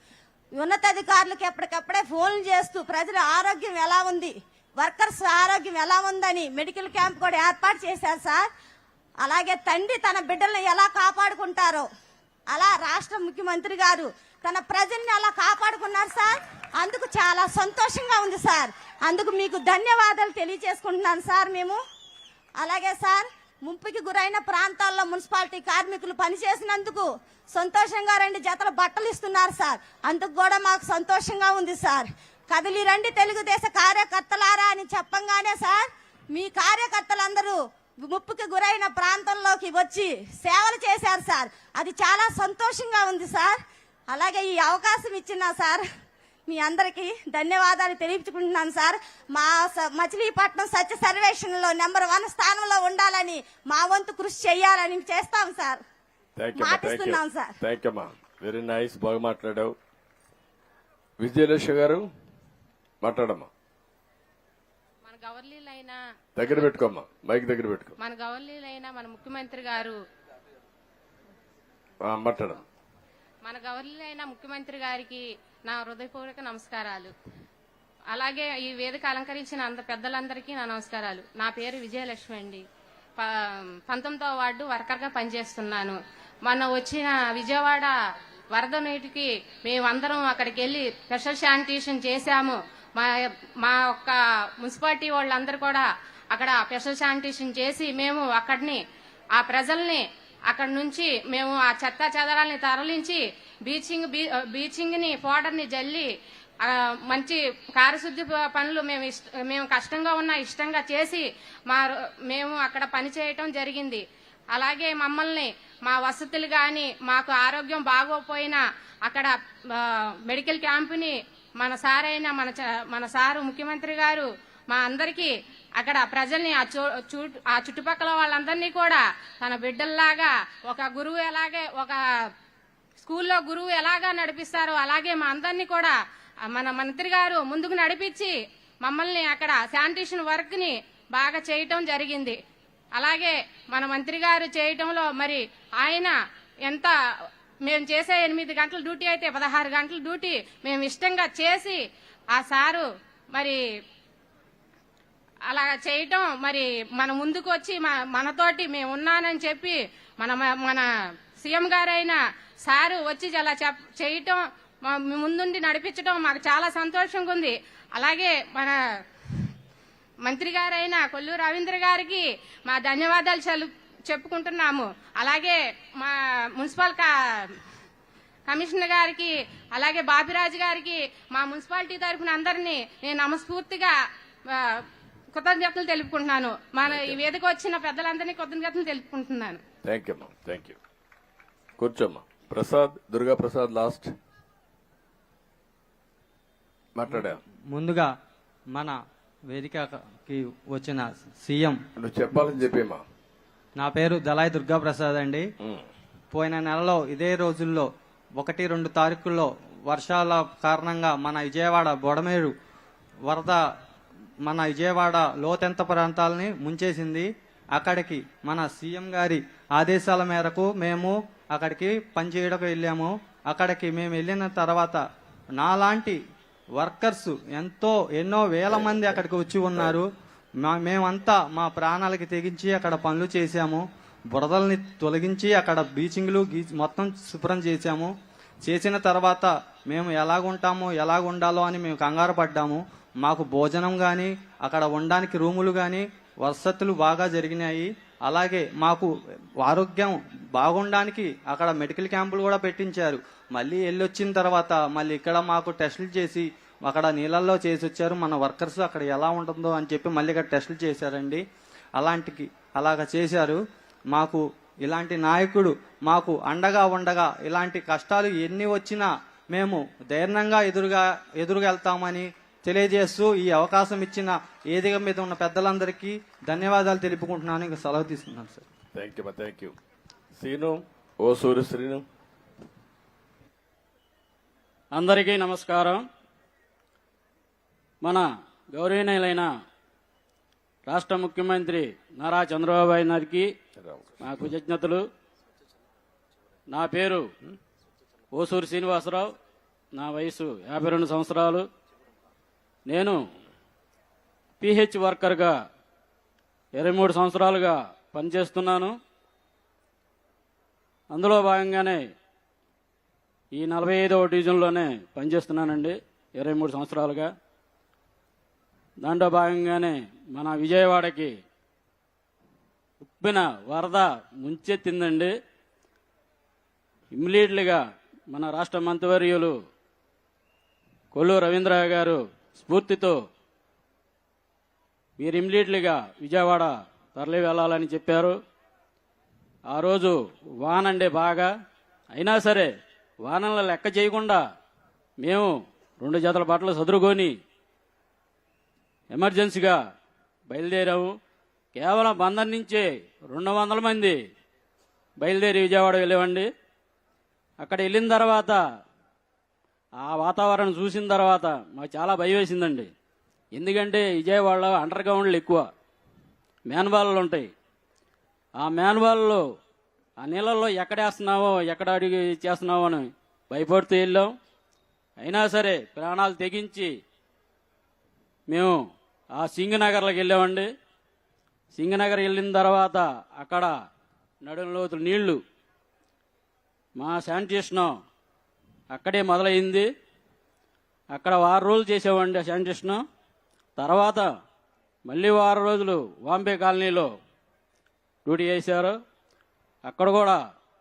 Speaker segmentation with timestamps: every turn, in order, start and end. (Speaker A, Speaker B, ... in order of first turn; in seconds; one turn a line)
Speaker A: 0.6-8.4
Speaker A: 9.2-11.9
Speaker A: 12.5-21.8
Speaker A: 22.6-45.9
Speaker A: 46.5-55.8
Speaker B: 56.4-59.8
Speaker A: 56.5-57.6
Speaker B: 61.2-62.1
Speaker B: 63.0-63.5
Speaker C: 65.0-66.0
Speaker B: 66.4-68.0
Speaker C: 68.0-70.0
Speaker B: 72.0-72.6
Speaker C: 73.5-77.1
Speaker C: 78.1-82.6
Speaker C: 83.2-87.9
Speaker C: 88.5-98.8
Speaker C: 99.4-106.1
Speaker C: 106.6-114.0
Speaker C: 114.5-132.0
Speaker C: 133.0-135.9
Speaker C: 136.5-142.4
Speaker C: 143.0-146.1
Speaker C: 146.7-146.9
Speaker C: 147.7-151.8
Speaker C: 152.4-153.6
Speaker C: 155.5-160.8
Speaker C: 161.4-168.8
Speaker C: 170.2-177.6
Speaker C: 178.5-183.9
Speaker C: 184.5-184.8
Speaker C: 185.4-189.6
Speaker B: 186.9-187.2
Speaker B: 189.8-190.8
Speaker B: 191.8-194.1
Speaker B: 196.9-197.4
Speaker D: 197.7-198.1
Speaker D: 199.5-201.8
Speaker B: 202.0-203.0
Speaker D: 203.8-205.4
Speaker D: 206.3-207.9
Speaker D: 208.4-212.5
Speaker D: 213.3-213.6
Speaker D: 214.5-225.0
Speaker D: 225.6-226.2
Speaker D: 226.8-230.1
Speaker B: 228.7-229.2
Speaker D: 230.6-233.8
Speaker D: 234.3-238.1
Speaker D: 238.7-249.1
Speaker D: 249.6-261.4
Speaker D: 262.0-263.6
Speaker D: 264.1-278.6
Speaker B: 278.9-279.8
Speaker B: 280.4-282.0
Speaker E: 284.9-286.0
Speaker E: 288.0-289.5
Speaker E: 290.9-293.5
Speaker B: 293.8-294.2
Speaker E: 294.2-295.0
Speaker E: 296.7-297.3
Speaker E: 298.3-299.3
Speaker E: 299.9-301.7
Speaker E: 302.9-303.2
Speaker E: 304.6-305.5
Speaker E: 306.8-308.9
Speaker E: 311.1-312.0
Speaker E: 313.6-317.3
Speaker E: 319.0-321.3
Speaker E: 323.0-325.3
Speaker E: 327.1-329.6
Speaker E: 331.1-333.2
Speaker E: 335.2-338.4
Speaker E: 339.7-341.5
Speaker E: 342.1-342.7
Speaker E: 343.2-344.4
Speaker E: 345.2-347.4
Speaker E: 349.1-349.8
Speaker E: 350.5-351.1
Speaker E: 351.8-354.2
Speaker E: 355.2-356.5
Speaker E: 357.6-358.6
Speaker E: 360.0-362.9
Speaker E: 363.5-365.7
Speaker E: 366.7-367.5
Speaker E: 368.6-369.4
Speaker E: 370.2-374.3
Speaker E: 375.2-376.9
Speaker E: 378.5-378.8
Speaker E: 379.3-380.7
Speaker E: 381.7-383.7
Speaker E: 384.4-385.4
Speaker E: 387.0-387.9
Speaker E: 388.9-389.9
Speaker E: 391.1-393.0
Speaker E: 393.8-394.3
Speaker E: 395.1-397.1
Speaker E: 398.2-399.0
Speaker E: 399.9-400.4